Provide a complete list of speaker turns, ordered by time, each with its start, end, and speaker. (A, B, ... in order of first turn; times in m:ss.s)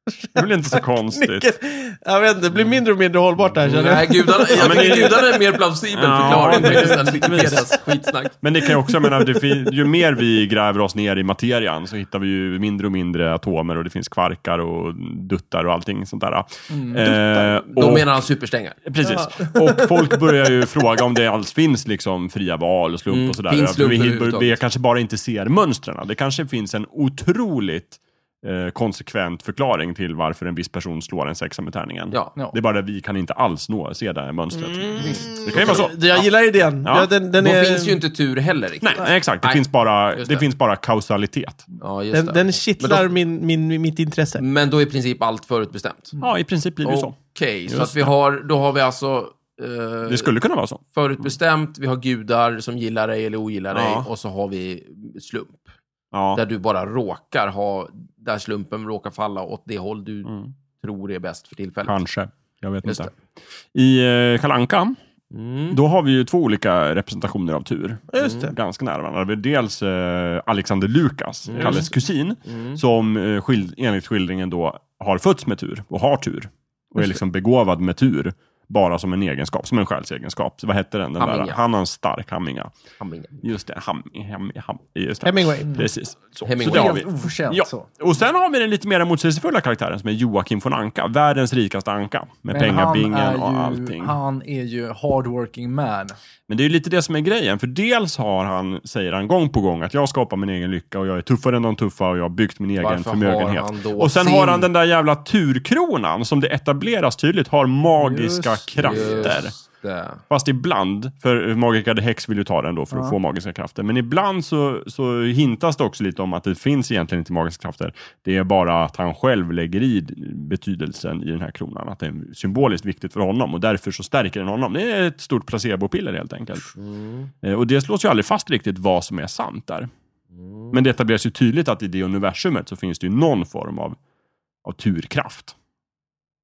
0:00.3-0:01.5 A
0:01.1-0:05.5 B
0:03.6-0:08.3 C
0:04.5-0:05.2 A
0:05.9-0:07.8 A
0:06.5-0:07.2 B
0:08.4-0:18.2 A
0:08.8-0:09.2 B
0:16.7-0:17.1 D
0:17.3-0:18.8 C
0:18.8-0:36.1 A
0:19.0-0:20.6 B
0:23.1-0:24.6 C
0:34.8-0:38.0 B
0:35.0-0:35.4 D
0:35.6-0:36.2 C
0:36.8-0:37.1 A
0:37.4-0:40.4 C
0:38.8-0:41.7 A
0:41.8-0:43.1 C
0:42.1-0:44.4 B
0:44.4-0:46.1 C
0:46.2-0:48.1 A
0:46.8-0:50.3 C
0:50.1-0:51.3 A
0:50.9-0:55.7 C
0:53.7-0:54.1 A
0:56.1-0:56.4 A
0:56.3-1:02.0 C
1:00.2-1:00.5 A
1:01.8-1:03.2 A
1:02.8-1:03.1 C
1:03.7-1:05.0 A
1:05.3-1:05.8 C
1:05.7-1:22.7 A
1:08.1-1:08.5 B
1:08.2-1:08.5 C
1:11.5-1:11.9 C
1:11.5-1:11.8 B
1:12.4-1:12.8 C
1:21.2-1:21.6 C
1:23.0-1:23.4 C
1:23.4-1:34.2 A
1:25.2-1:25.7 B
1:25.6-1:25.9 D
1:26.4-1:27.0 C
1:26.6-1:27.9 D
1:32.5-1:36.2 D
1:36.5-1:49.5 A
1:42.8-1:44.7 C
1:48.0-1:49.3 D
1:48.8-1:50.2 C
1:50.3-2:06.8 A
1:52.9-1:53.2 D
2:06.8-2:07.3 C
2:07.4-2:09.9 A
2:10.3-2:10.8 C
2:10.7-2:14.0 A
2:14.6-2:15.5 A